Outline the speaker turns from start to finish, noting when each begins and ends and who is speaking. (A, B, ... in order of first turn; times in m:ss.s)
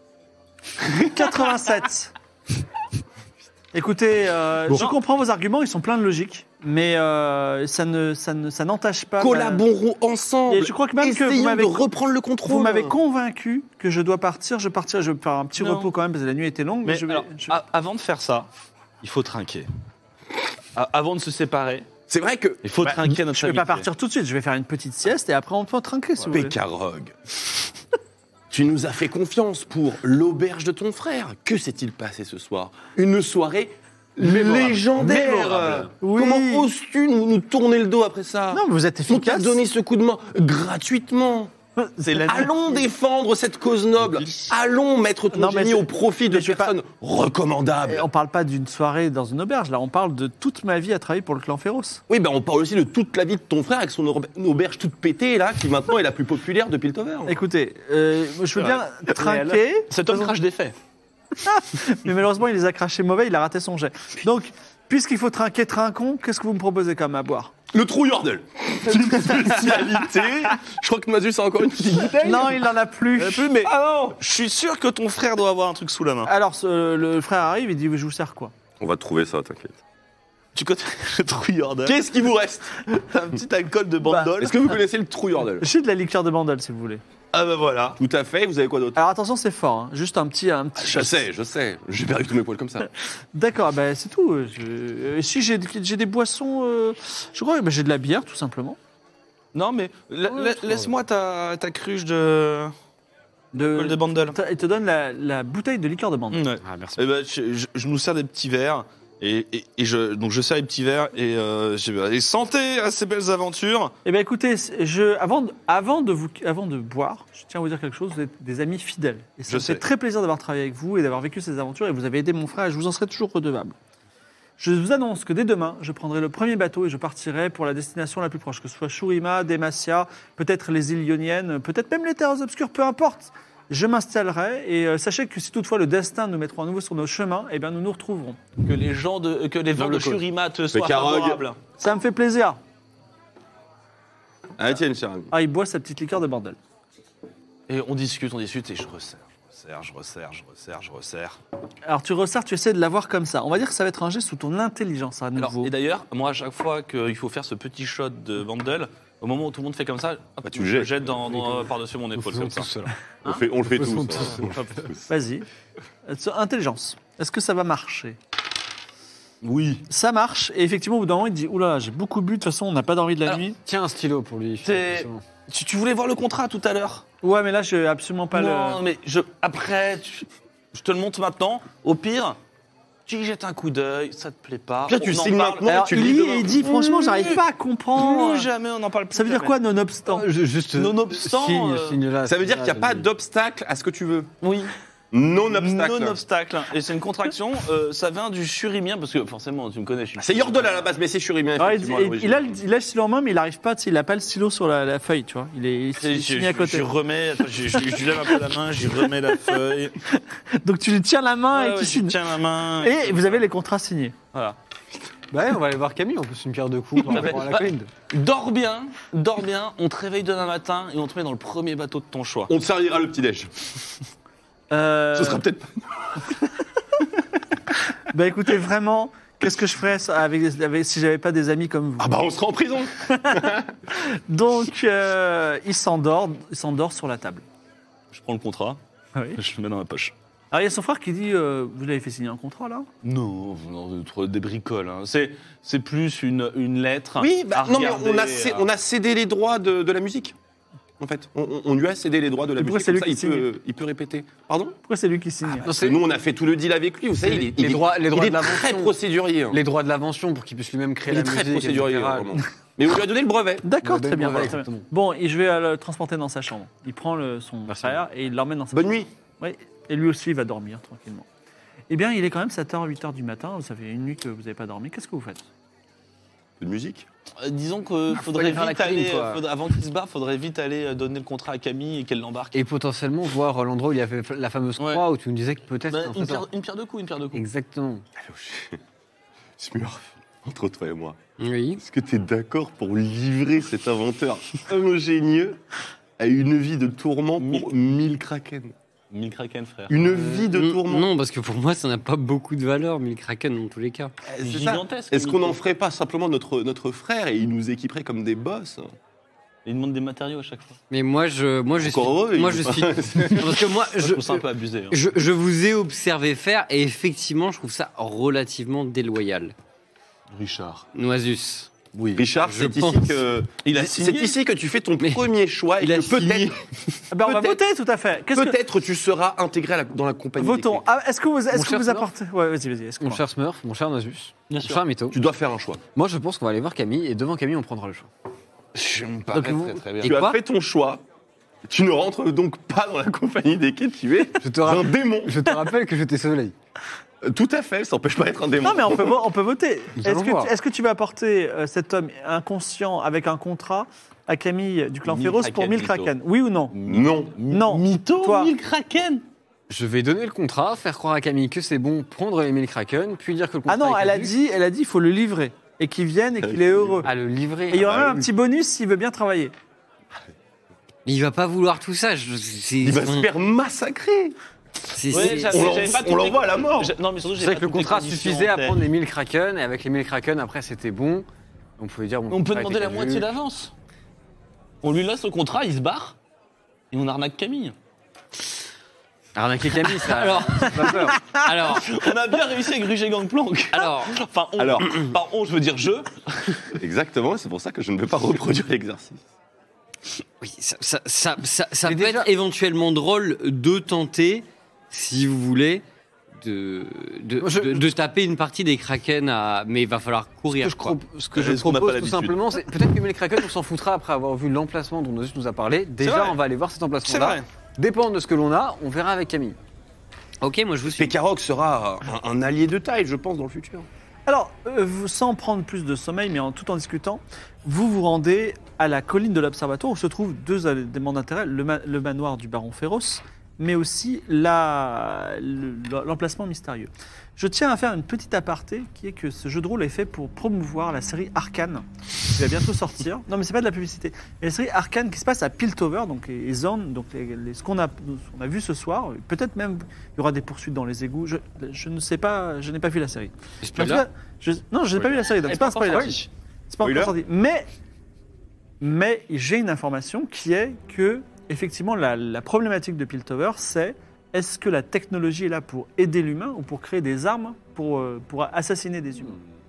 0:01.0-0:02.1 A
0:03.7-0:09.6 A
0:09.2-0:13.0 B
0:10.5-0:11.8 A
0:12.4-0:17.6 A
0:15.6-0:15.9 C
0:16.8-0:18.5 C
0:19.0-0:19.7 C
0:20.8-0:21.9 C
0:22.1-0:23.0 B
0:22.6-0:23.9 C
0:23.3-0:26.6 A
0:26.3-0:27.2 B
0:28.5-0:41.5 B
0:34.2-0:36.7 A
0:38.5-0:39.6 A
0:41.8-0:42.5 A
0:42.0-0:42.5 C
0:42.2-0:48.1 B
0:45.3-0:46.7 A
0:47.8-0:52.0 A
0:52.1-0:57.4 B
0:57.3-1:00.3 A
0:58.6-1:00.8 C
1:01.4-1:07.5 A
1:07.7-1:12.7 B
1:12.2-1:13.7 A
1:13.2-1:16.3 C
1:16.2-1:18.5 A
1:18.8-1:19.8 B
1:20.5-1:22.0 C
1:21.8-1:22.8 B
1:22.9-1:24.6 C
1:24.4-1:25.7 B
1:25.6-1:27.0 A
1:27.3-1:28.0 C
1:27.4-1:29.0 B
1:29.0-1:31.2 A
1:30.8-1:32.9 B
1:33.3-1:38.8 A
1:39.5-1:42.7 C
1:43.5-1:46.5 A
1:43.6-1:44.4 C
1:46.3-1:53.9 C
1:46.6-1:47.0 D
1:54.0-2:03.8 A
1:59.5-1:59.8 C
2:04.6-2:18.4 A
2:18.6-2:21.6 C
2:19.8-2:20.2 D
2:20.7-2:21.4 B
2:21.8-2:22.6 A
2:24.6-2:25.3 B
2:25.3-2:26.6 A
2:27.7-2:31.4 C
2:31.8-2:35.7 A
2:35.4-2:43.4 C
2:40.4-2:41.2 B
2:41.3-2:41.6 D
2:42.2-2:42.9 D
2:43.2-2:45.0 B
2:43.7-2:44.9 D
2:45.1-2:45.5 A
2:46.0-2:48.2 A
2:49.4-2:49.9 C
2:49.9-2:53.6 A
2:53.6-2:55.2 D
2:54.6-2:57.1 C
2:57.2-2:58.8 A
2:58.3-3:02.4 C
3:03.1-3:07.4 C
3:04.9-3:06.8 B
3:05.7-3:08.5 A
3:07.9-3:09.6 C
3:09.1-3:10.3 A
3:10.1-3:13.1 D
3:10.8-3:12.0 C
3:12.2-3:14.3 B
3:14.4-3:14.7 C
3:15.1-3:16.2 B
3:15.5-3:20.8 C
3:20.2-3:22.6 B
3:21.6-3:26.9 A
3:26.0-3:30.0 C
3:30.1-3:32.2 A
3:31.5-3:33.4 C
3:32.8-3:34.2 A
3:35.3-3:37.9 D
3:37.1-3:42.5 C
3:42.5-3:43.5 B
3:44.7-3:45.4 A
3:45.1-3:46.2 B
3:48.1-3:52.1 A
3:52.0-3:53.8 B
3:53.1-3:57.4 A
3:58.1-3:58.8 C
3:59.4-4:00.1 C
4:00.5-4:02.9 A
4:03.0-4:08.7 C
4:07.2-4:10.4 B
4:11.0-4:14.8 B
4:12.6-4:13.5 A
4:14.8-4:15.7 A
4:15.6-4:16.0 D
4:15.7-4:19.6 B
4:17.2-4:19.0 D
4:19.5-4:22.3 D
4:21.1-4:23.7 B
4:23.6-4:31.2 A
4:23.8-4:24.9 D
4:27.7-4:28.0 D
4:28.7-4:29.1 B
4:31.9-4:35.4 A
4:36.6-4:37.1 B
4:37.4-4:42.6 C
4:38.4-4:39.3 D
4:42.5-4:46.5 D
4:44.8-4:45.0 C
4:45.9-4:47.4 C
4:47.3-4:48.0 D
4:48.2-4:48.8 B
4:49.6-4:51.2 B
4:51.4-4:51.8 E
4:51.8-4:55.6 B
4:56.2-4:58.8 B
4:57.4-4:57.7 C
4:59.1-5:00.0 C
4:59.9-5:01.1 B
5:00.3-5:04.1 E
5:04.3-5:09.0 B
5:04.4-5:05.6 C
5:09.6-5:10.8 C
5:10.9-5:19.5 E
5:11.8-5:13.8 B
5:14.0-5:15.0 C
5:20.3-5:20.9 C
5:20.9-5:21.7 E
5:21.9-5:22.2 C
5:22.1-5:27.6 B
5:22.4-5:23.2 E
5:23.6-5:24.4 C
5:25.8-5:26.4 E
5:27.1-5:28.6 A
5:28.3-5:30.9 B
5:30.4-5:33.2 A
5:31.5-5:32.1 D
5:33.0-5:35.2 D
5:34.5-5:34.8 C
5:35.1-5:35.8 B
5:35.9-5:38.1 D
5:38.8-5:41.0 B
5:39.3-5:40.1 D
5:39.5-5:40.2 C
5:40.0-5:40.3 E
5:41.7-5:45.5 B
5:44.4-5:46.6 D
5:47.2-5:49.2 B
5:48.6-5:56.8 A
5:50.0-5:50.5 D
5:55.1-5:56.1 C
5:56.7-5:59.2 C
5:56.9-5:57.4 B
5:57.5-5:58.5 A
5:59.7-6:04.3 D
6:03.7-6:07.1 A
6:06.4-6:07.0 B
6:07.0-6:08.2 D
6:07.7-6:09.5 A
6:07.8-6:08.2 B
6:11.1-6:13.3 E
6:12.8-6:14.4 B
6:14.9-6:15.9 E
6:15.1-6:18.8 C
6:15.1-6:16.9 B
6:17.4-6:21.3 D
6:21.8-6:23.3 D
6:22.3-6:23.7 C
6:24.8-6:26.2 C
6:26.9-6:27.8 C
6:29.4-6:31.2 D
6:30.0-6:31.9 E
6:31.6-6:36.7 C
6:33.7-6:34.1 E
6:34.6-6:35.0 B
6:36.7-6:39.2 B
6:40.4-6:45.8 E
6:41.9-6:42.3 D
6:46.4-6:51.0 E
6:47.4-6:47.9 D
6:50.6-6:59.6 D
6:51.3-6:52.4 C
6:56.0-6:56.4 C
6:57.1-6:57.4 C
7:00.4-7:01.1 E
7:00.9-7:03.9 B
7:04.3-7:37.7 A
7:33.6-7:34.0 E
7:35.4-7:36.3 C
7:36.8-7:37.1 B
7:38.8-7:49.4 A